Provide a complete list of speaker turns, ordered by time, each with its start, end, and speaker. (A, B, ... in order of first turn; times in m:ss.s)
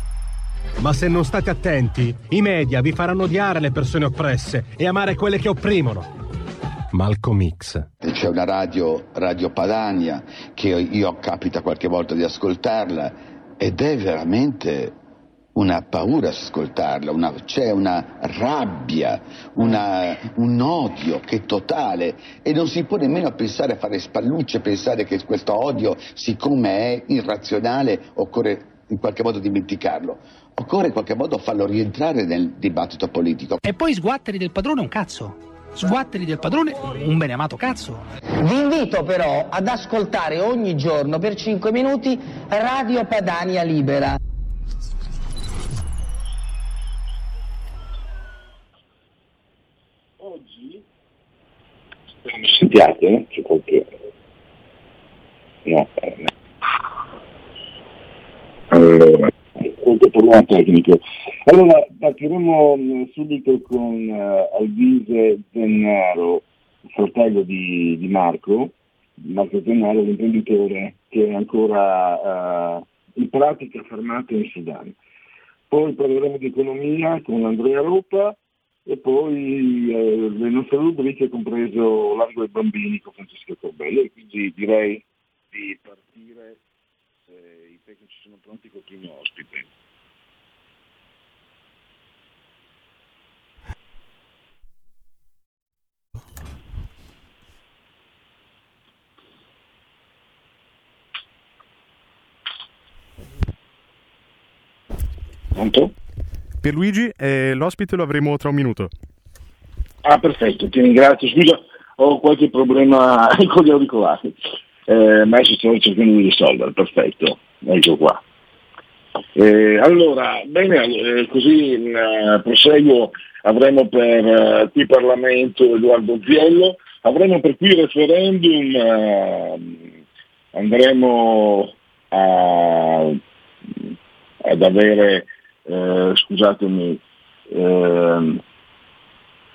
0:00.8-0:06.0 A
0:06.9-0:07.8 A
0:08.0-0:14.9 B
0:15.5-0:33.6 B
0:33.6-0:38.0 C
0:38.4-0:44.1 D
0:50.2-0:50.8 E
0:52.2-0:53.9 E
0:55.6-0:56.3 E
0:58.7-1:14.9 E
1:15.7-1:26.6 E
1:27.3-1:29.7 E
1:45.5-1:45.9 E
1:46.6-1:48.9 F
1:50.0-1:54.3 E
1:54.9-1:58.2 E
1:59.4-2:10.0 E
2:10.5-2:13.2 E
2:14.4-2:18.4 E